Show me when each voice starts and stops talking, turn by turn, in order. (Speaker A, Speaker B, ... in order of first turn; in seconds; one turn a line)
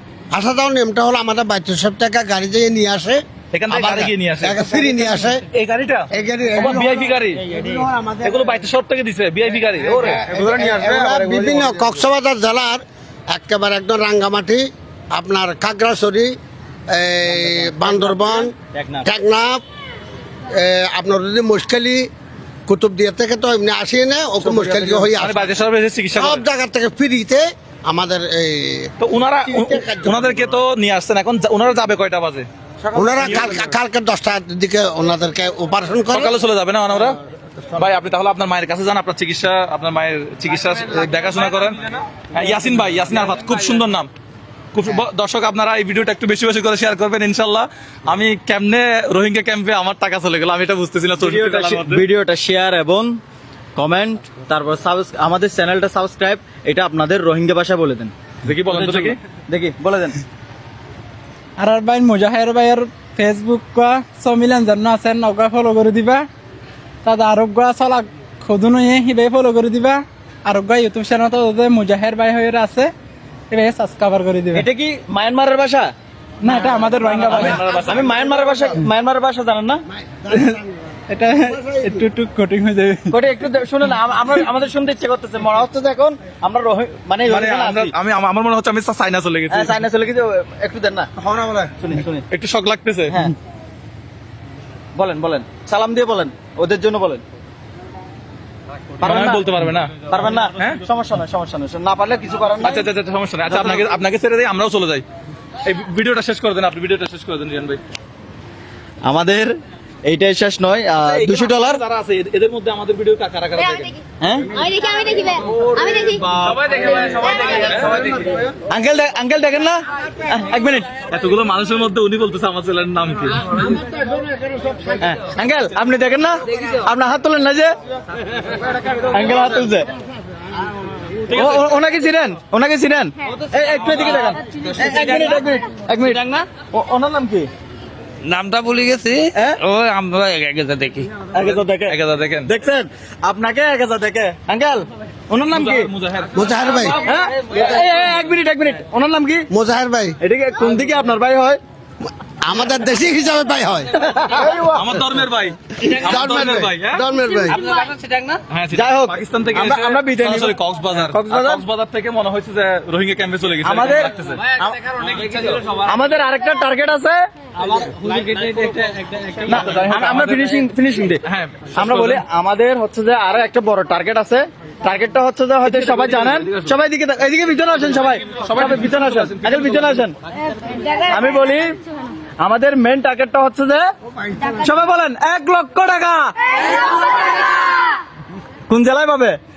Speaker A: 0.3-5.4
Speaker B: 3.5-7.5
Speaker A: 6.1-8.5
Speaker B: 8.2-10.3
Speaker A: 9.8-16.4
Speaker C: 10.1-11.8
Speaker A: 16.9-18.5
Speaker C: 17.3-19.1
Speaker A: 19.0-19.6
Speaker A: 20.5-22.1
Speaker A: 22.7-25.5
Speaker C: 24.4-25.1
Speaker B: 25.1-26.4
Speaker A: 26.1-30.3
Speaker B: 29.0-32.5
Speaker C: 32.9-33.4
Speaker A: 32.9-36.3
Speaker B: 33.2-33.6
Speaker B: 36.1-37.2
Speaker B: 37.7-44.1
Speaker B: 44.7-52.0
Speaker C: 51.2-53.2
Speaker C: 53.8-58.1
Speaker B: 58.4-59.2
Speaker C: 58.7-60.2
Speaker D: 61.6-66.2
Speaker D: 67.0-72.9
Speaker D: 73.5-74.7
Speaker C: 74.5-75.9
Speaker D: 76.4-77.8
Speaker C: 76.5-79.8
Speaker B: 77.3-78.1
Speaker A: 78.0-78.7
Speaker A: 80.0-80.7
Speaker D: 80.3-83.2
Speaker A: 81.4-82.0
Speaker C: 83.1-87.9
Speaker B: 87.2-89.8
Speaker C: 89.5-91.1
Speaker A: 91.2-91.7
Speaker C: 91.8-92.2
Speaker B: 92.3-93.2
Speaker C: 93.1-93.3
Speaker C: 94.9-97.2
Speaker C: 99.0-102.9
Speaker B: 99.0-100.8
Speaker B: 102.6-105.0
Speaker C: 103.5-103.9
Speaker B: 105.6-107.8
Speaker C: 109.0-109.5
Speaker C: 110.0-111.8
Speaker B: 111.0-113.9
Speaker C: 114.2-114.5
Speaker E: 114.5-116.2
Speaker B: 115.4-118.1
Speaker E: 117.0-117.7
Speaker C: 117.7-120.9
Speaker B: 121.0-123.7
Speaker C: 125.0-127.7
Speaker C: 129.1-129.9
Speaker C: 131.3-137.5
Speaker B: 131.3-131.6
Speaker F: 134.8-135.4
Speaker F: 136.0-136.4
Speaker F: 138.2-141.1
Speaker C: 139.3-139.6
Speaker C: 141.1-145.9
Speaker B: 141.8-142.5
Speaker B: 145.5-146.8
Speaker A: 146.3-147.0
Speaker C: 146.9-149.5
Speaker A: 149.5-150.2
Speaker C: 150.2-151.6
Speaker A: 152.4-153.9
Speaker C: 153.9-154.9
Speaker B: 154.3-157.1
Speaker A: 155.8-157.6
Speaker C: 157.6-161.6
Speaker B: 158.5-164.5
Speaker C: 163.6-165.2
Speaker B: 165.1-165.8
Speaker C: 165.7-167.2
Speaker F: 167.6-168.7
Speaker D: 168.3-169.5
Speaker C: 169.4-180.1
Speaker B: 169.6-170.6
Speaker B: 171.2-172.2
Speaker B: 175.6-176.7
Speaker B: 178.3-180.0
Speaker C: 180.9-181.8
Speaker C: 182.4-183.8
Speaker C: 184.5-186.6
Speaker C: 188.7-189.4